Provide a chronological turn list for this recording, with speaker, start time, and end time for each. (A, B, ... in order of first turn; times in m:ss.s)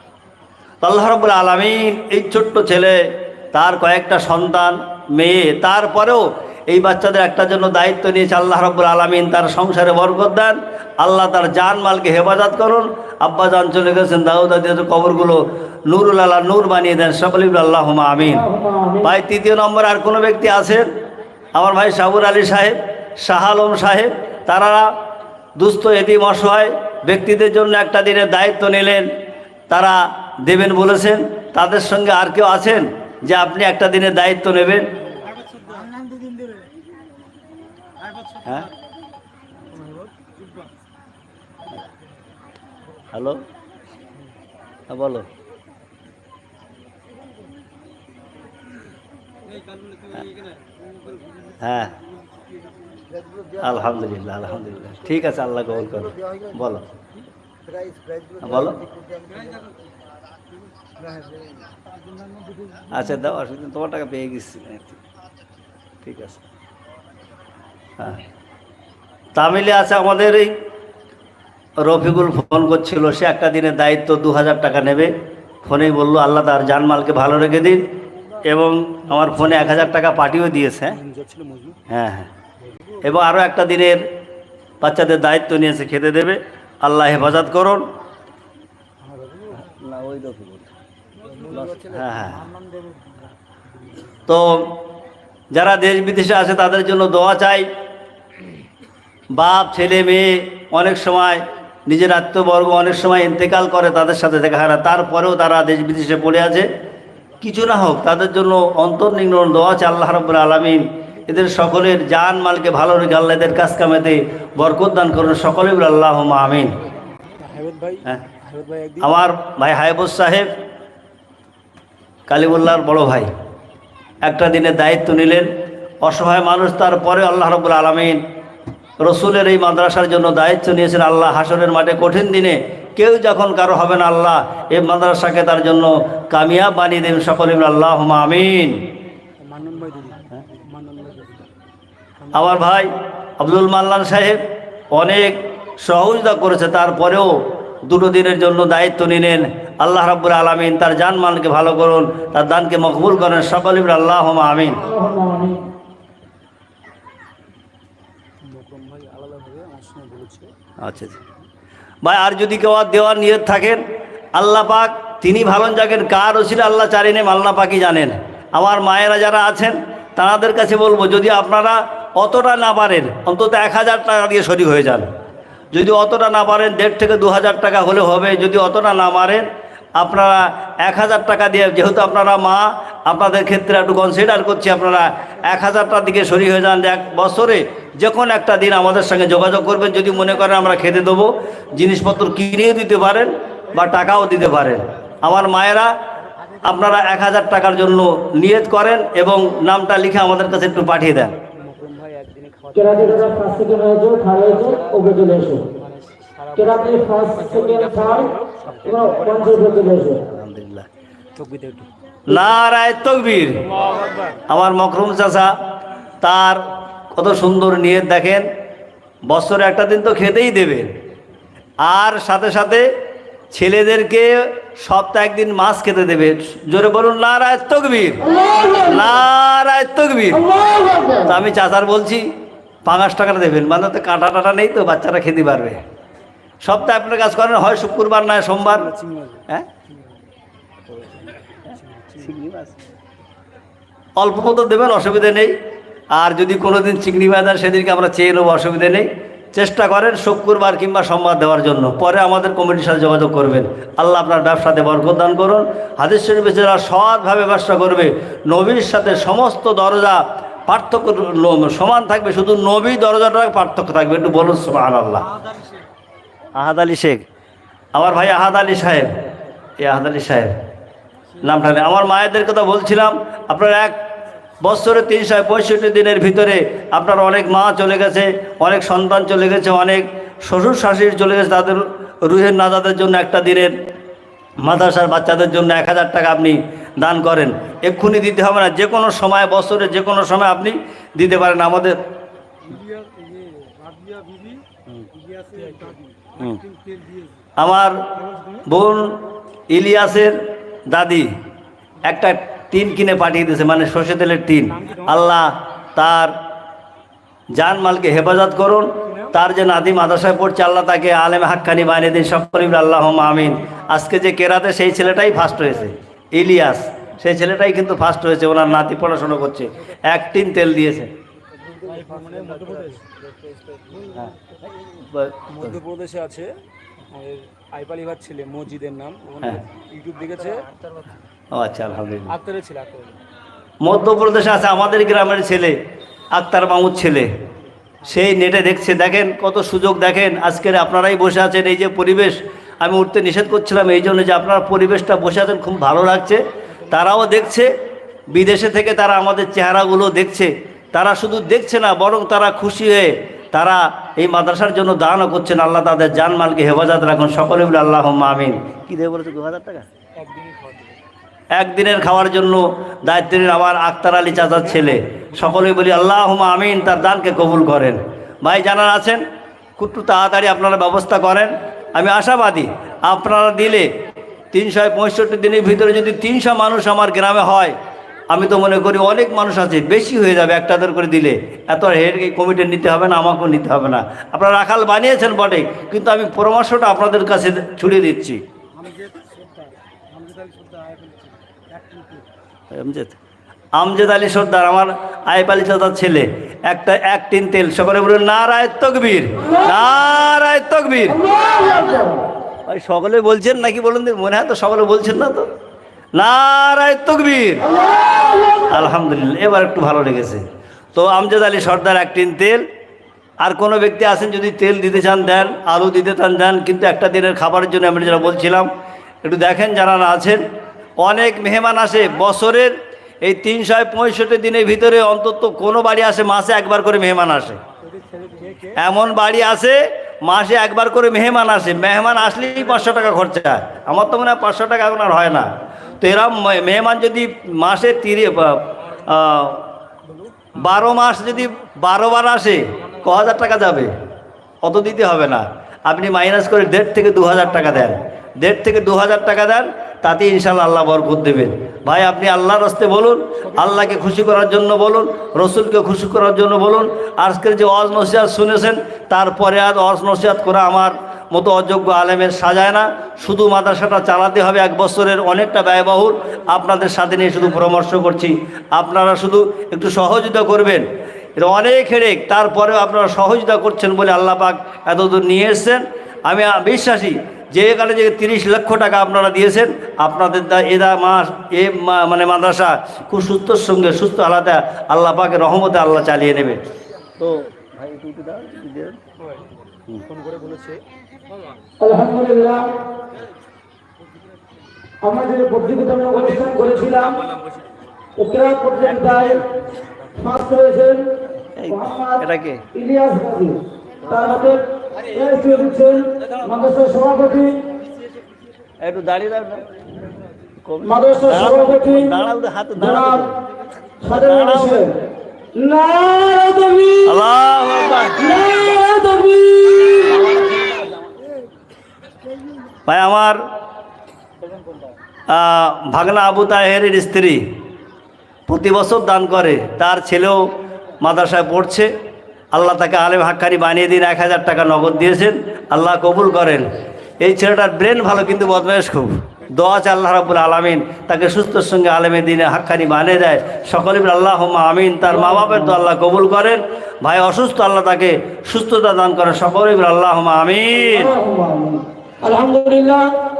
0:00.8-0:18.4 A
0:18.2-0:19.1 B
0:19.0-0:20.9 A
0:21.5-0:24.9 A
0:25.6-0:29.1 A
0:29.7-0:34.9 A
0:39.7-0:40.3 C
0:43.1-0:43.4 A
0:44.9-0:45.3 A
0:51.6-0:51.9 A
0:53.6-0:56.8 A
0:58.4-0:58.8 A
1:02.9-1:05.0 A
1:06.0-1:06.4 A
1:09.4-1:10.5 A
1:11.8-1:15.1 A
1:15.6-1:17.8 A
1:18.4-1:21.0 A
1:19.1-1:20.0 C
1:20.8-1:21.8 C
1:21.9-1:22.3 A
1:22.6-1:23.0 C
1:23.0-1:24.0 A
1:24.8-1:27.9 A
1:29.0-1:29.6 C
1:29.6-1:30.7 A
1:31.2-1:34.2 C
1:31.5-1:32.4 A
1:34.3-1:34.7 A
1:35.5-1:37.7 A
1:39.3-1:46.7 A
1:47.4-1:56.7 A
1:57.4-1:59.2 C
1:59.0-2:00.5 A
2:02.3-2:03.3 A
2:04.2-2:05.5 A
2:06.0-2:08.2 A
2:09.0-2:18.8 A
2:19.4-2:21.5 C
2:22.2-2:22.5 C
2:22.3-2:34.8 A
2:34.8-2:35.6 B
2:38.4-2:40.5 C
2:40.8-2:41.2 A
2:42.0-2:43.8 A
2:44.3-2:55.1 A
2:55.7-3:15.9 A
3:16.6-3:21.3 A
3:21.5-3:23.6 C
3:22.8-3:25.7 B
3:24.6-3:25.0 C
3:25.7-3:30.0 C
3:26.6-3:28.3 B
3:28.8-3:30.2 B
3:30.3-3:30.9 A
3:31.3-3:31.9 C
3:32.3-3:33.7 A
3:33.7-3:34.4 C
3:34.5-3:35.5 A
3:36.2-3:36.6 A
3:37.1-3:38.5 A
3:39.3-3:40.9 A
3:41.8-3:42.9 A
3:43.5-3:48.2 A
3:48.2-3:49.1 B
3:48.8-3:50.4 A
3:50.3-3:51.3 B
3:51.2-3:52.3 A
3:52.8-3:55.8 A
3:56.6-3:58.9 A
3:58.6-4:00.0 C
4:00.9-4:02.8 A
4:01.7-4:02.3 C
4:04.2-4:05.5 A
4:06.1-4:25.3 A
4:26.6-4:27.2 A
4:27.9-4:29.1 A
4:29.8-4:30.5 A
4:31.4-4:34.0 A
4:34.6-4:43.7 A
4:44.6-4:52.0 A
4:52.7-4:54.6 C
4:55.2-4:57.3 C
4:57.6-4:58.0 A
4:58.1-4:58.6 C
4:58.6-4:59.2 A
4:59.7-5:01.3 A
5:02.0-5:06.3 A
5:04.7-5:05.3 C
5:07.5-5:21.1 A
5:09.0-5:09.3 C
5:21.8-5:23.2 C
5:23.9-5:24.2 C
5:25.0-5:25.8 A
5:25.5-5:26.5 C
5:27.1-5:30.7 C
5:31.5-5:32.3 A
5:32.3-5:33.2 C
5:33.8-5:35.8 A
5:36.3-5:37.3 A
5:38.0-5:47.7 A
5:46.7-5:47.3 C
5:48.3-5:59.8 A
6:00.2-6:01.0 C
6:01.5-6:09.2 A
6:04.7-6:05.0 C
6:09.8-6:13.9 A
6:14.5-6:17.8 A
6:18.3-6:28.4 A
6:28.8-6:29.4 C
6:30.2-6:31.1 C
6:32.7-6:33.2 A
6:33.8-6:41.2 A
6:39.4-6:39.7 B
6:41.1-6:42.3 B
6:42.7-6:45.5 A
6:46.2-6:47.7 A
6:47.6-6:48.9 B
6:48.6-6:50.4 A
6:50.9-6:52.6 A
6:53.4-6:58.7 A
6:59.2-7:00.4 A
7:01.0-7:07.6 A
7:07.8-7:08.8 C
7:08.8-7:19.7 A
7:20.0-7:20.6 C
7:20.5-7:23.9 A
7:24.6-7:50.8 A
7:33.5-7:33.9 C
7:51.4-8:06.6 A
8:07.2-8:09.0 A
8:09.2-8:09.5 C
8:10.0-8:10.8 C
8:11.8-8:12.8 B
8:15.0-8:17.2 B
8:16.6-8:17.7 C
8:18.2-8:19.4 B
8:18.9-8:19.4 A
8:19.8-8:20.1 C
8:20.2-8:21.0 B
8:21.5-8:22.6 A
8:21.7-8:27.6 B
8:28.8-8:29.6 A
8:30.6-8:33.4 A
8:30.8-8:32.2 B
8:32.8-8:33.3 B
8:34.0-8:34.9 B
8:34.1-8:34.8 A
8:35.5-8:37.2 B
8:37.0-8:38.5 A
8:38.1-8:40.4 B
8:42.9-8:43.4 A
8:45.3-8:47.4 A
8:48.5-8:51.9 A
8:52.5-8:56.7 A
8:57.2-9:11.1 A
9:05.2-9:05.8 B
9:10.7-9:13.1 B